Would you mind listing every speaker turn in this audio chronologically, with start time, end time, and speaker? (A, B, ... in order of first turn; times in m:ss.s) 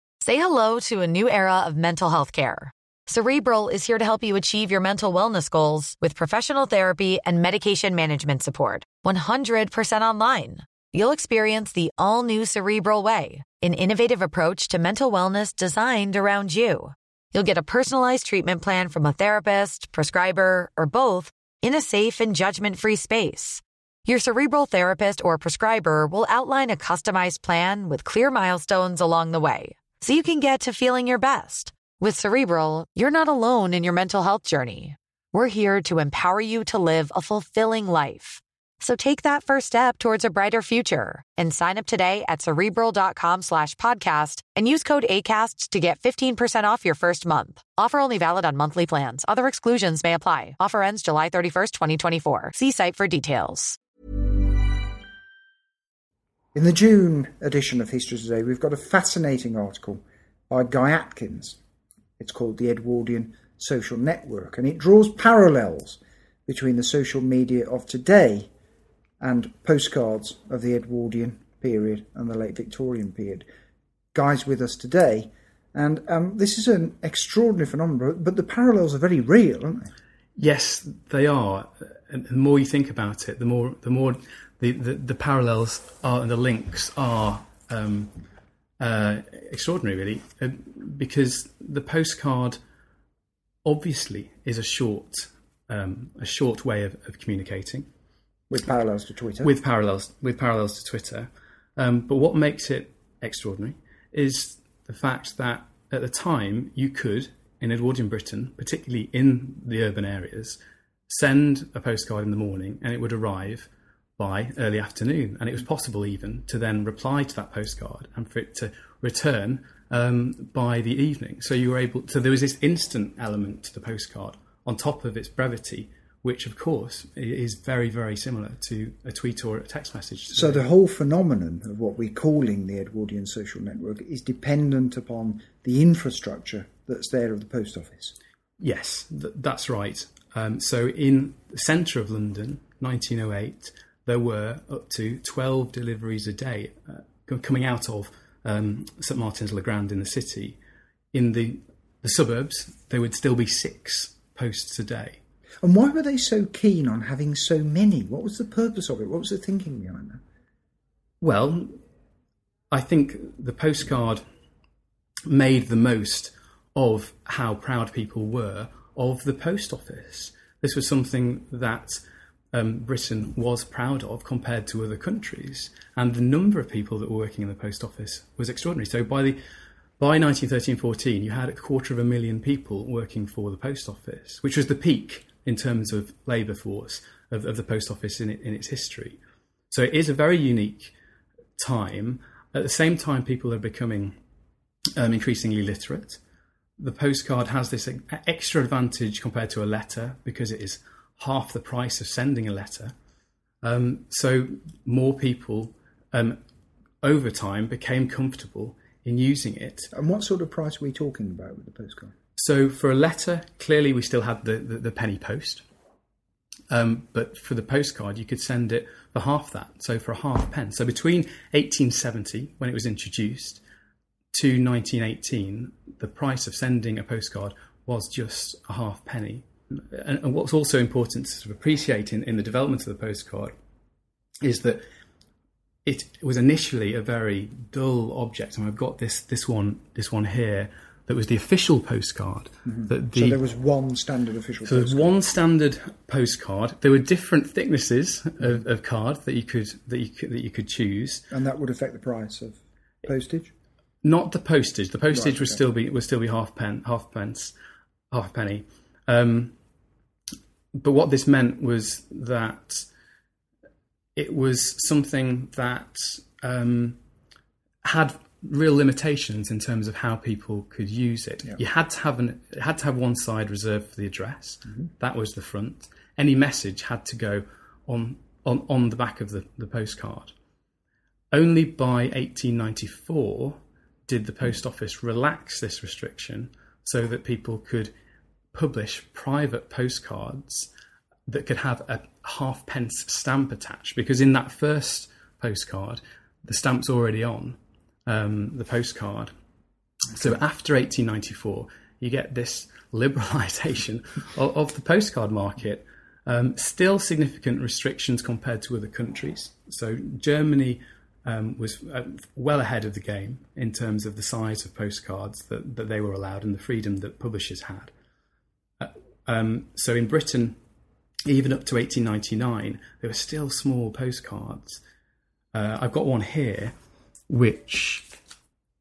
0:00.2-0:53.8 A
0:56.5-1:01.6 B
1:02.2-1:08.5 B
1:09.2-1:13.4 B
1:14.1-1:19.9 B
1:20.4-1:28.2 C
1:28.8-1:32.6 C
1:33.6-1:37.9 C
1:38.5-1:39.6 B
1:39.4-2:10.7 C
2:10.3-2:18.2 B
2:18.6-2:30.6 C
2:31.1-2:35.2 C
2:35.6-2:40.2 B
2:41.2-2:41.8 C
2:42.7-2:44.2 C
2:45.3-2:59.4 C
3:00.0-3:10.9 C
3:11.6-3:14.2 C
3:15.0-3:16.2 C
3:16.8-3:22.9 C
3:23.6-3:26.4 C
3:27.0-3:29.9 C
3:29.9-3:32.1 B
3:32.4-3:35.6 C
3:36.7-3:43.6 C
3:44.3-3:53.6 C
3:54.4-3:54.8 C
3:55.8-4:03.4 C
4:02.6-4:05.2 B
4:04.6-4:11.3 C
4:11.3-4:13.5 B
4:14.0-4:17.6 C
4:15.1-4:15.6 B
4:18.1-4:19.6 C
4:20.7-4:22.9 C
4:24.2-4:27.0 C
4:27.8-4:40.4 C
4:41.3-4:47.9 C
4:48.5-4:50.7 C
4:51.3-4:59.3 C
5:00.1-5:17.9 C
5:18.8-5:20.6 C
5:21.3-5:24.8 C
5:25.5-5:26.8 C
5:27.3-5:28.2 C